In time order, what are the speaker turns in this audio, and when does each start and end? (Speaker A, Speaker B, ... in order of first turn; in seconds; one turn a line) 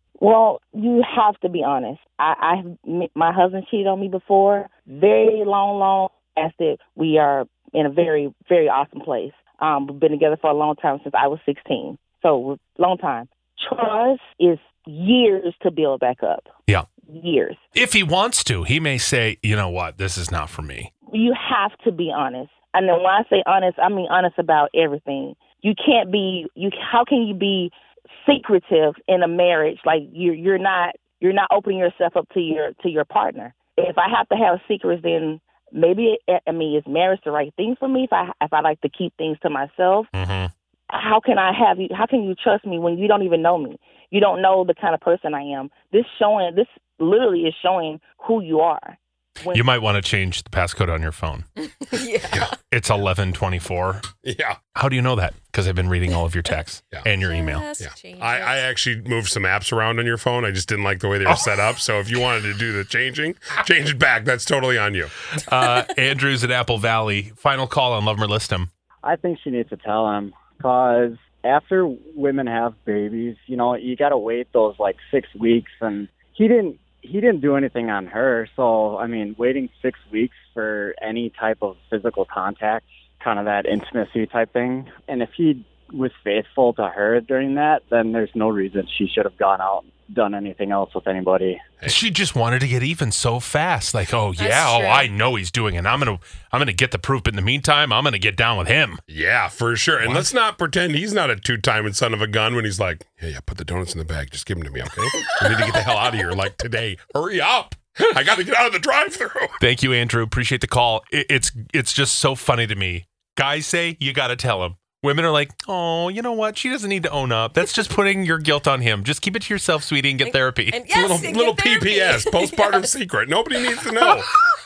Speaker A: 0.2-16.5
Speaker A: 17.1-17.6
Speaker B: 17.8-20.9
Speaker A: 21.1-40.1
Speaker B: 40.1-40.5
Speaker A: 40.9-49.7
Speaker B: 49.5-51.4
Speaker C: 51.6-52.5
Speaker B: 52.6-54.1
Speaker D: 54.2-54.6
Speaker B: 54.7-57.7
Speaker C: 57.2-58.6
Speaker D: 57.8-65.1
Speaker B: 61.2-61.6
Speaker B: 65.3-68.7
Speaker E: 69.0-91.6
Speaker B: 91.8-99.0
Speaker C: 94.4-95.1
Speaker D: 99.1-109.5
Speaker B: 109.6-120.9
Speaker C: 120.2-122.9
Speaker D: 120.9-124.3